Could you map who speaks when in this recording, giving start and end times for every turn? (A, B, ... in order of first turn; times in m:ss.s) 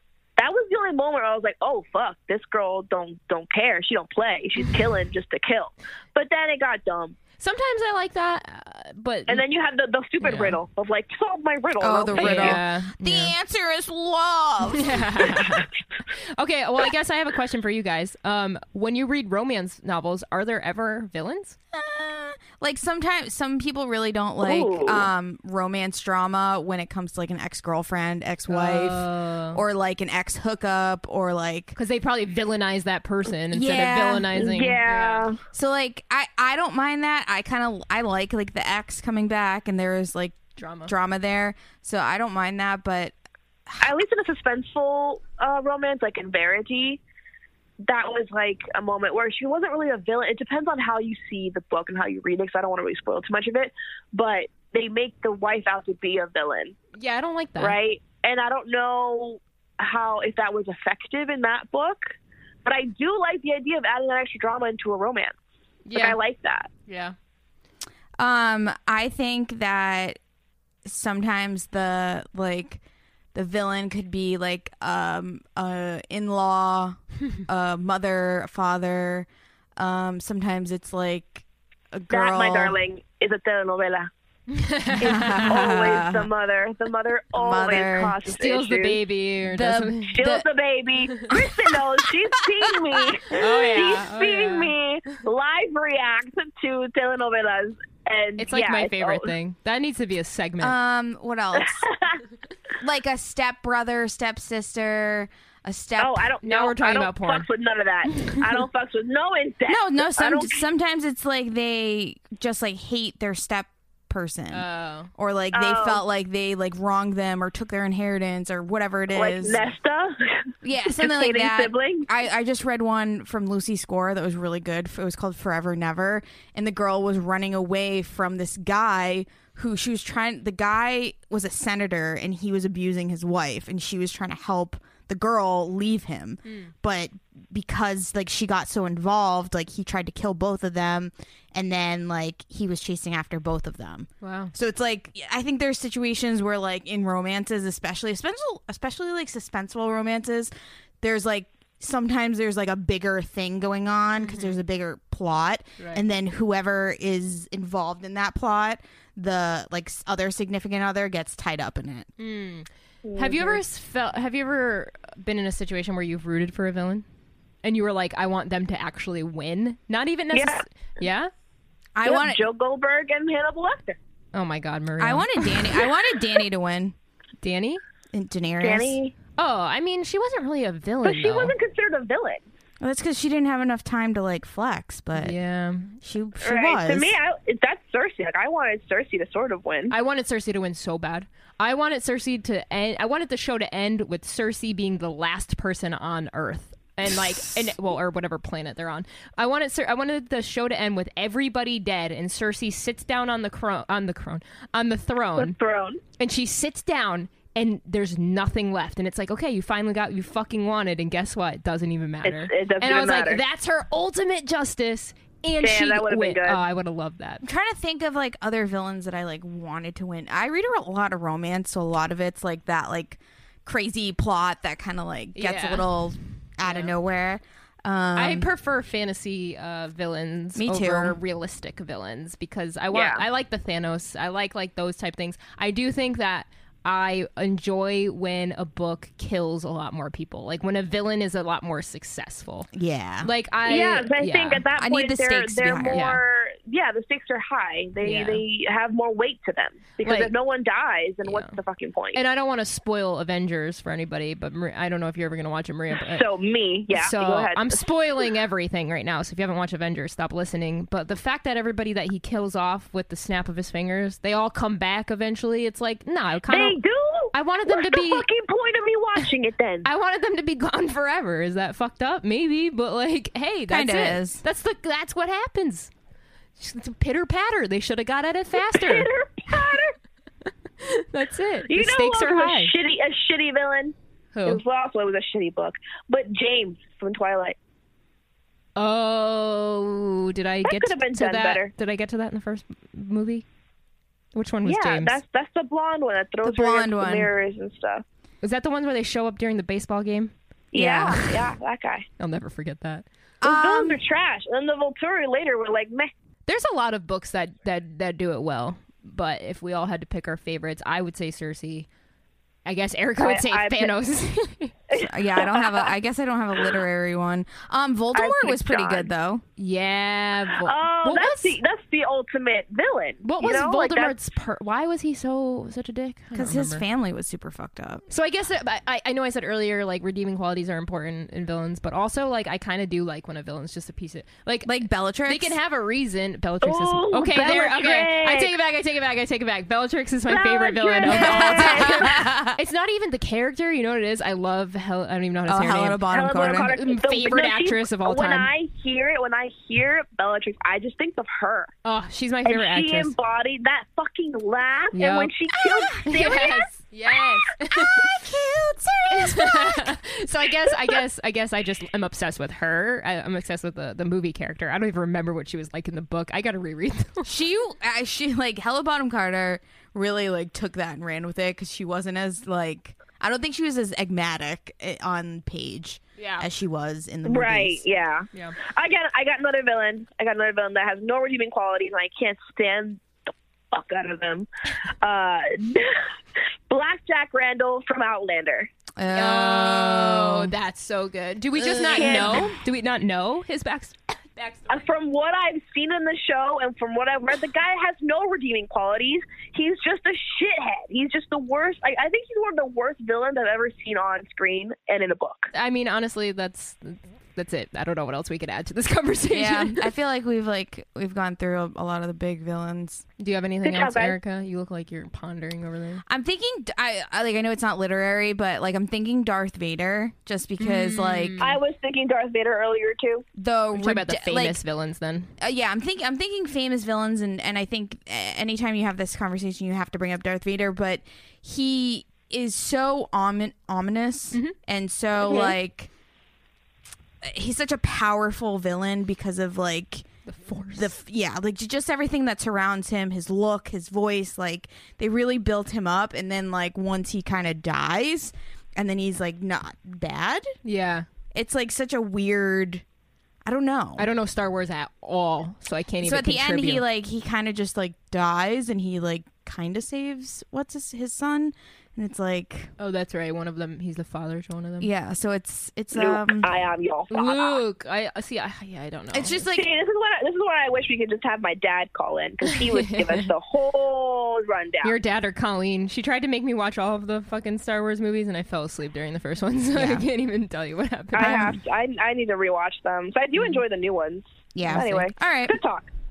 0:00.4-0:07.2 A
0:07.4-0:09.4 B
0:09.3-0:12.6 A
0:10.2-0:10.6 B
0:11.8-0:15.6 C
0:12.1-0:13.3 B
0:14.7-0:21.6 B
0:21.7-0:31.8 C
0:24.4-0:25.1 A
0:28.5-0:29.6 B
0:31.7-0:35.3 B
0:33.5-0:34.3 C
0:34.4-0:35.4 A
0:35.5-0:43.1 C
0:40.6-0:40.9 B
0:43.8-0:47.0 A
0:47.8-0:56.7 A
0:57.0-0:57.8 B
0:57.6-1:02.1 A
1:02.6-1:05.3 A
1:05.8-1:06.2 B
1:05.9-1:06.7 A
1:06.9-1:07.1 B
1:08.2-1:10.2 C
1:10.8-1:12.8 C
1:13.3-1:22.8 C
1:22.1-1:24.1 A
1:24.5-1:25.8 B
1:25.0-1:26.3 C
1:25.3-1:29.0 A
1:27.3-1:28.1 C
1:28.2-1:30.2 B
1:29.4-1:30.4 C
1:30.1-1:39.3 A
1:33.3-1:34.7 B
1:38.4-1:40.7 B
1:40.6-1:41.8 C
1:41.6-1:42.2 A
1:42.8-1:46.3 C
1:46.0-1:50.6 A
1:46.4-1:47.5 B
1:49.7-1:59.6 C
1:54.5-1:55.1 B
1:55.5-1:56.0 A
1:59.1-2:02.1 A
2:00.6-2:42.1 C
2:16.4-2:16.7 B
2:24.2-2:24.5 B
2:34.2-2:34.6 B
2:42.2-2:47.0 B
2:43.0-2:43.6 A
2:47.6-2:51.3 B
2:50.3-2:50.6 A
2:51.9-2:52.5 C
2:52.0-2:54.0 A
2:54.3-2:55.4 B
2:55.0-2:56.9 C
2:57.4-2:57.8 B
2:58.1-2:59.0 C
2:58.6-2:59.1 A
2:59.4-3:01.5 B
3:01.0-3:02.4 A
3:02.8-3:05.4 C
3:05.1-3:05.9 B
3:06.0-3:07.2 C
3:06.4-3:09.9 A
3:09.9-3:25.6 B
3:25.4-3:26.0 A
3:26.2-3:37.4 B
3:32.2-3:33.4 A
3:35.6-3:36.6 A
3:37.4-3:48.5 C
3:45.3-3:45.9 B
3:46.6-3:46.9 B
3:48.2-4:02.7 B
3:50.6-3:51.2 C
3:52.9-3:53.2 A
4:02.7-4:03.3 C
4:03.2-4:04.6 B
4:03.6-4:12.2 A
4:04.8-4:06.1 C
4:05.9-4:06.2 B
4:08.0-4:08.4 B
4:10.0-4:10.3 B
4:11.2-4:11.6 B
4:12.1-4:16.3 B
4:15.9-4:17.8 A
4:16.9-4:26.8 B
4:26.5-4:29.9 A
4:27.3-4:28.2 B
4:29.8-4:35.9 B
4:33.7-4:34.4 C
4:36.6-4:39.1 B
4:38.5-4:39.9 A
4:40.8-4:42.7 B
4:41.7-4:43.9 A
4:44.3-4:44.6 B
4:44.4-4:47.6 A
4:48.8-4:53.4 B
4:50.6-4:51.7 A
4:54.3-4:55.2 B
4:54.6-4:58.0 A
4:56.4-4:57.3 C
4:58.4-5:00.3 B
5:00.7-5:02.0 A
5:00.7-5:01.2 C
5:02.2-5:03.0 B
5:03.4-5:04.0 C
5:03.4-5:06.1 A
5:06.5-5:11.9 B
5:12.6-5:14.7 B
5:13.2-5:13.9 A
5:14.9-5:15.9 A
5:15.0-5:19.4 C
5:18.1-5:19.1 A
5:19.6-5:21.6 B
5:20.6-5:24.2 A
5:23.2-5:26.8 B
5:26.3-5:28.0 C
5:28.1-5:34.7 B
5:34.6-5:35.6 C
5:35.2-5:46.0 B
5:36.6-5:38.5 A
5:40.3-5:42.2 A
5:41.1-5:42.6 C
5:45.4-5:46.7 C
5:46.1-5:51.7 A
5:46.6-5:48.5 B
5:51.8-5:53.1 B
5:52.4-5:56.7 A
5:54.9-5:55.3 B
5:55.5-5:56.1 C
5:56.0-5:58.1 B
5:57.7-5:59.9 C
5:59.1-6:07.3 B
6:07.2-6:17.8 C
6:16.2-6:16.4 B
6:17.2-6:23.0 A
6:23.7-6:24.5 A
6:25.0-6:25.9 A
6:26.7-6:28.7 A
6:29.0-6:30.5 C
6:29.1-6:34.8 B
6:31.6-6:32.5 C
6:31.9-6:32.6 A
6:34.7-6:45.5 A
6:45.5-6:49.9 B
6:49.3-6:53.0 C
6:53.2-6:56.0 B
6:53.6-6:54.2 A
6:56.1-7:01.4 C
7:00.6-7:01.6 B
7:01.4-7:03.2 A
7:03.4-7:04.6 C
7:03.7-7:05.3 B
7:05.4-7:15.9 C
7:15.2-7:15.6 A
7:17.2-7:20.1 C
7:20.2-7:20.9 B
7:20.6-7:30.4 C
7:30.6-7:31.0 B
7:31.3-7:32.8 C
7:33.4-7:34.1 C
7:34.0-7:36.8 B
7:36.0-7:42.7 C
7:42.8-7:44.9 B
7:44.8-7:46.5 C
7:45.9-7:47.6 A
7:47.1-7:49.4 B
7:49.1-7:49.7 C
7:49.5-7:55.0 A
7:52.4-7:53.3 B
7:54.8-8:01.4 B
7:59.7-8:00.0 C
8:01.1-8:05.9 A
8:01.2-8:01.6 C
8:03.4-8:03.6 B
8:04.5-8:05.6 C
8:04.6-8:05.0 B